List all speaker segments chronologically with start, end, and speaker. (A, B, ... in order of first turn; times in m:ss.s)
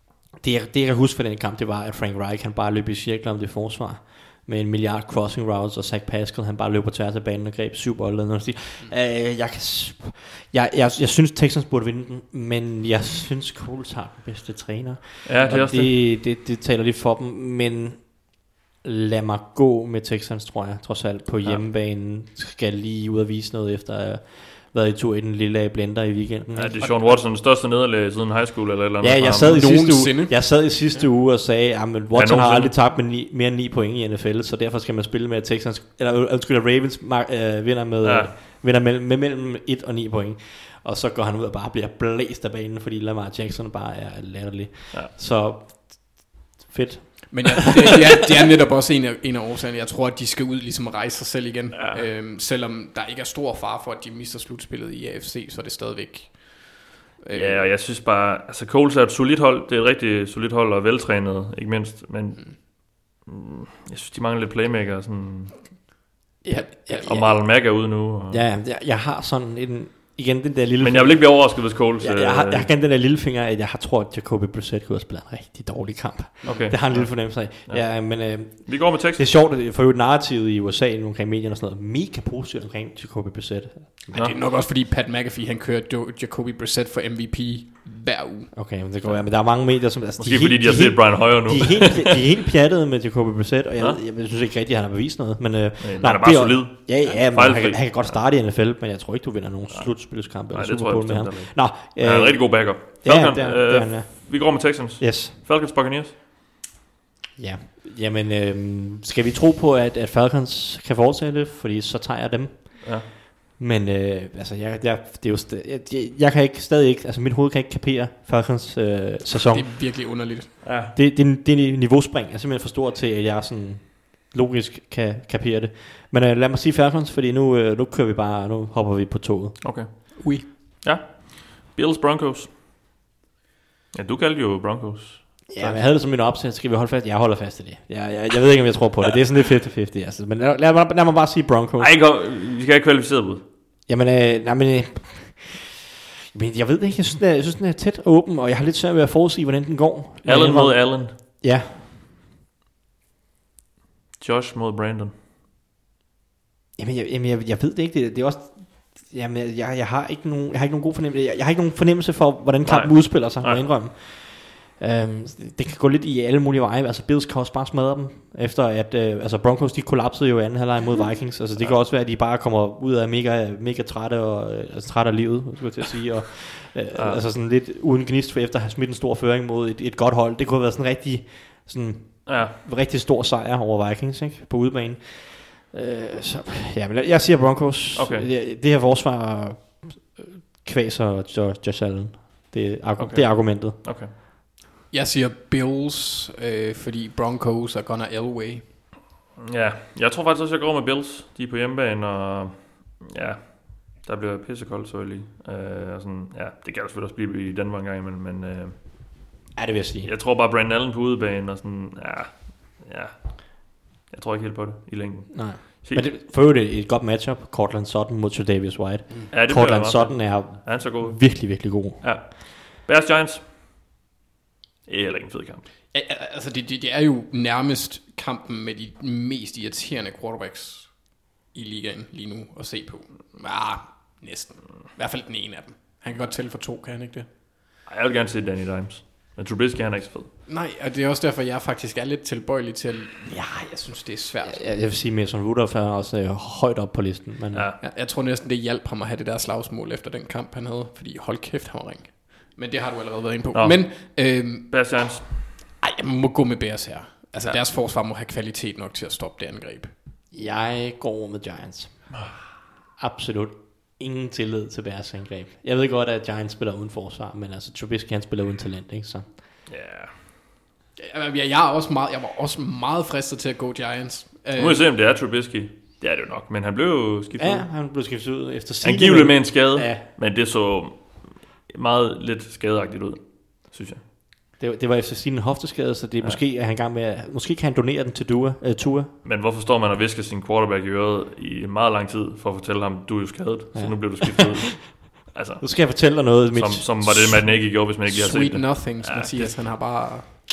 0:00.4-0:26.9 A
0:15.2-0:16.0 B
0:26.5-0:30.0 B
0:26.8-0:27.2 C
0:29.0-0:47.6 A
0:29.3-0:31.0 C
0:32.1-0:32.8 B
0:38.0-0:38.4 B
0:47.3-0:57.7 C
0:57.4-1:05.9 B
1:06.4-1:24.3 A
1:06.5-1:07.1 C
1:06.7-1:08.4 B
1:10.8-1:12.7 B
1:16.4-1:19.3 B
1:16.4-1:16.7 C
1:24.1-1:29.1 C
1:28.5-1:45.4 A
1:29.5-1:32.2 B
1:35.8-1:38.2 B
1:39.7-1:46.2 B
1:47.4-1:59.7 A
1:59.5-2:00.5 C
2:00.6-2:01.0 B
2:00.9-2:09.8 A
2:09.6-2:12.5 B
2:10.2-2:10.5 C
2:13.9-2:15.6 B
2:15.5-2:22.0 A
2:21.8-2:23.4 B
2:23.9-2:25.7 A
2:26.3-2:31.8 A
2:30.2-2:31.2 B
2:34.2-2:35.1 B
2:36.8-3:13.8 A
2:42.6-2:43.8 B
2:57.0-2:57.2 B
3:02.3-3:02.6 B
3:07.9-3:08.3 B
3:13.0-3:14.1 B
3:14.9-3:18.6 C
3:19.4-3:28.8 B
3:29.6-3:30.1 A
3:30.0-3:36.1 B
3:35.3-3:42.2 A
3:39.3-3:43.5 B
3:44.9-3:45.7 B
3:45.9-3:57.3 C
3:57.9-4:00.3 B
4:00.5-4:04.6 C
4:04.4-4:07.7 A
4:07.5-4:07.8 B
4:07.8-4:14.9 C
4:13.5-4:15.5 B
4:15.8-4:19.9 C
4:20.3-4:22.4 A
4:23.0-4:29.4 A
4:29.7-4:30.2 B
4:31.0-4:34.9 C
4:34.6-4:37.9 B
4:37.4-4:40.1 A
4:38.8-4:44.0 B
4:44.6-4:49.1 A
4:49.2-4:59.6 B
4:53.7-4:57.6 A
4:58.1-5:00.3 C